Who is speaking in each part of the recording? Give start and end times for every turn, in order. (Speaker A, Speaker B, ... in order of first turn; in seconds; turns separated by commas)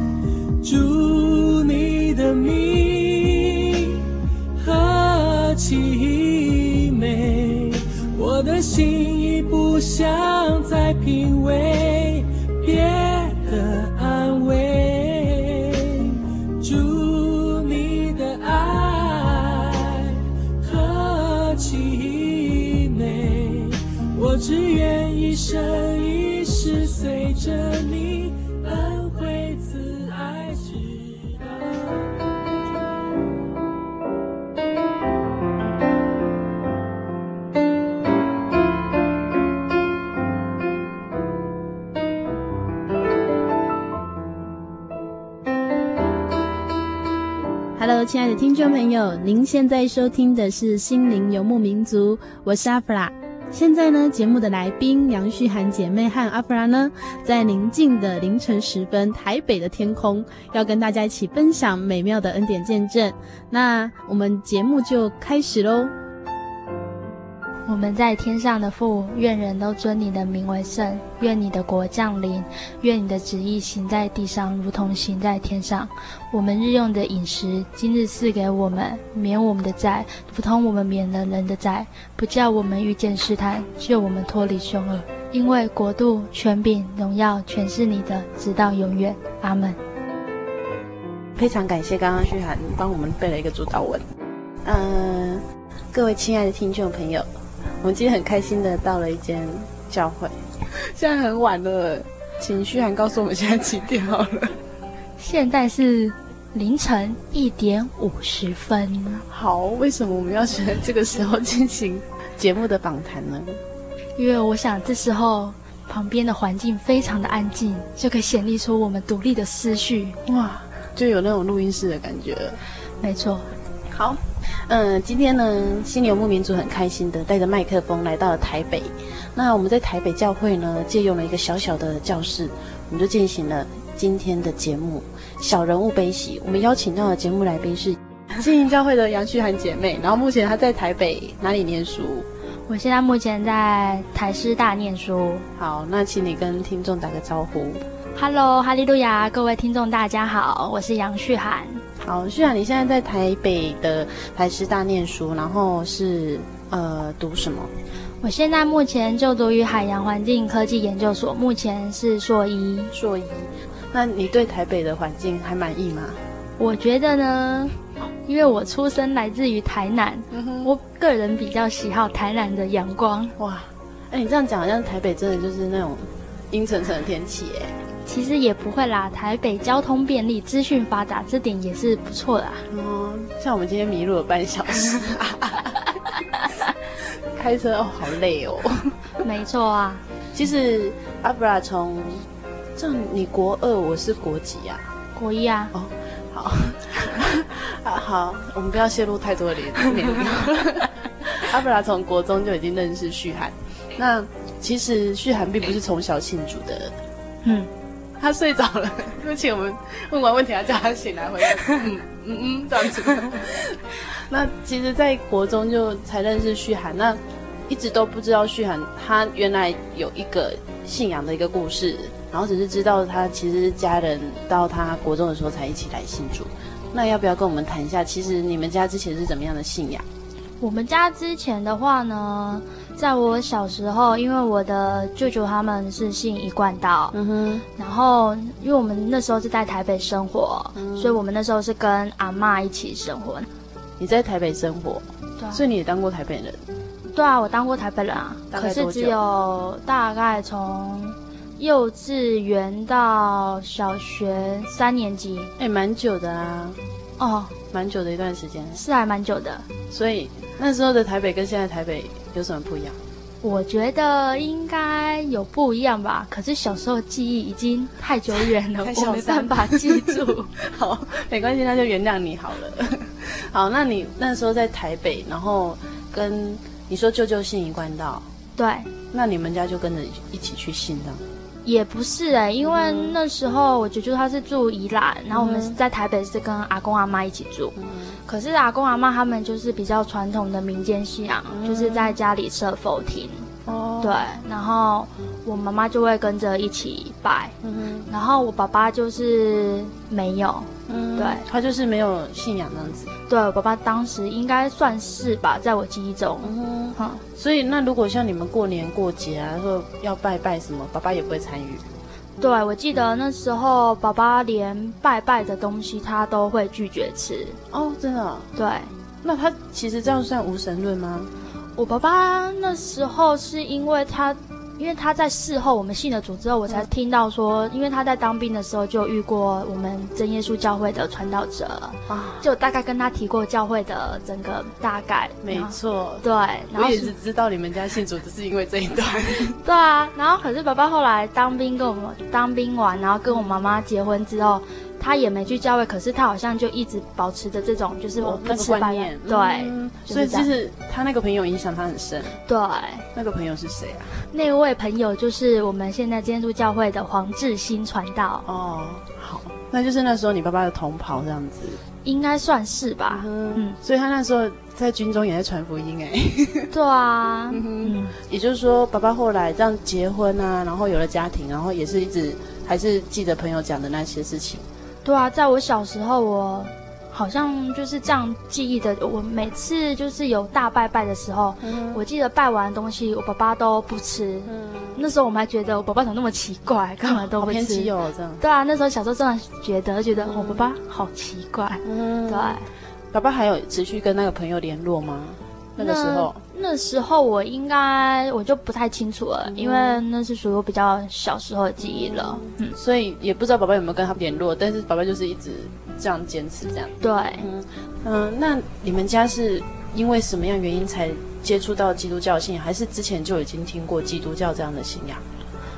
Speaker A: 0.6-4.0, Speaker A: 4.6-32.1, Speaker B: 47.8-65.9, Speaker C: 67.7-89.8, Speaker D: 91.3-94.0, Speaker D: 94.6-97.3, Speaker D: 97.8-104.6, Speaker C: 105.2-109.2, Speaker D: 109.3-113.6, Speaker C: 114.2-120.2, Speaker D: 120.2-122.6, Speaker C: 123.0-123.5, Speaker D: 123.9-142.3, Speaker C: 142.7-145.4, Speaker D: 145.6-147.8, Speaker C: 148.1-151.8, Speaker D: 152.0-157.7, Speaker C: 158.2-162.9, Speaker D: 162.9-166.2, Speaker C: 166.6-173.3, Speaker D: 170.3-170.7, Speaker D: 173.4-177.7, Speaker C: 178.1-182.7, Speaker D: 182.7-185.8, Speaker D: 187.3-188.9, Speaker C: 189.2-190.0, Speaker D: 190.3-192.2, Speaker D: 192.8-194.9, Speaker C: 195.2-195.7, Speaker D: 195.7-206.9, Speaker C: 207.4-207.7, Speaker D: 208.2-230.1, Speaker C: 230.6-237.2, Speaker D: 237.1-237.6, Speaker C: 237.8-243.5, Speaker D: 240.8-241.2, Speaker D: 244.0-246.6, Speaker C: 247.1-255.5, Speaker D: 248.5-249.2, Speaker D: 255.6-256.8, Speaker C: 257.2-257.5, Speaker D: 257.7-258.8, Speaker C: 258.8-259.6, Speaker D: 259.9-263.0, Speaker C: 263.4-270.5, Speaker D: 268.4-278.2, Speaker C: 278.6-278.9, Speaker D: 279.1-281.2, Speaker C: 281.6-287.7, Speaker D: 282.6-283.2, Speaker D: 285.3-285.8, Speaker D: 287.8-288.2, Speaker C: 288.3-293.5, Speaker D: 291.5-292.2, Speaker D: 293.6-294.2, Speaker C: 294.0-297.5, Speaker D: 297.6-298.1, Speaker C: 298.1-301.4, Speaker D: 300.9-303.1, Speaker C: 303.3-307.2, Speaker D: 306.4-311.9, Speaker C: 312.4-317.6, Speaker D: 317.7-318.5, Speaker C: 318.6-318.9, Speaker D: 319.2-321.3, Speaker C: 321.8-337.1, Speaker D: 332.1-332.4, Speaker D: 335.4-339.6, Speaker C: 339.6-350.5, Speaker D: 348.2-352.4, Speaker C: 352.5-353.0, Speaker D: 353.1-354.2, Speaker C: 354.3-358.4, Speaker D: 358.5-361.8, Speaker C: 362.0-363.8, Speaker D: 363.1-366.7, Speaker C: 366.7-368.1, Speaker D: 367.5-374.6, Speaker C: 375.0-392.6, Speaker D: 381.6-382.0, Speaker D: 384.5-385.0, Speaker D: 387.1-388.4, Speaker D: 390.1-390.6, Speaker D: 391.8-392.6, Speaker D: 393.1-396.4, Speaker C: 395.8-402.8, Speaker D: 399.5-400.0, Speaker D: 401.8-415.2, Speaker C: 407.0-407.5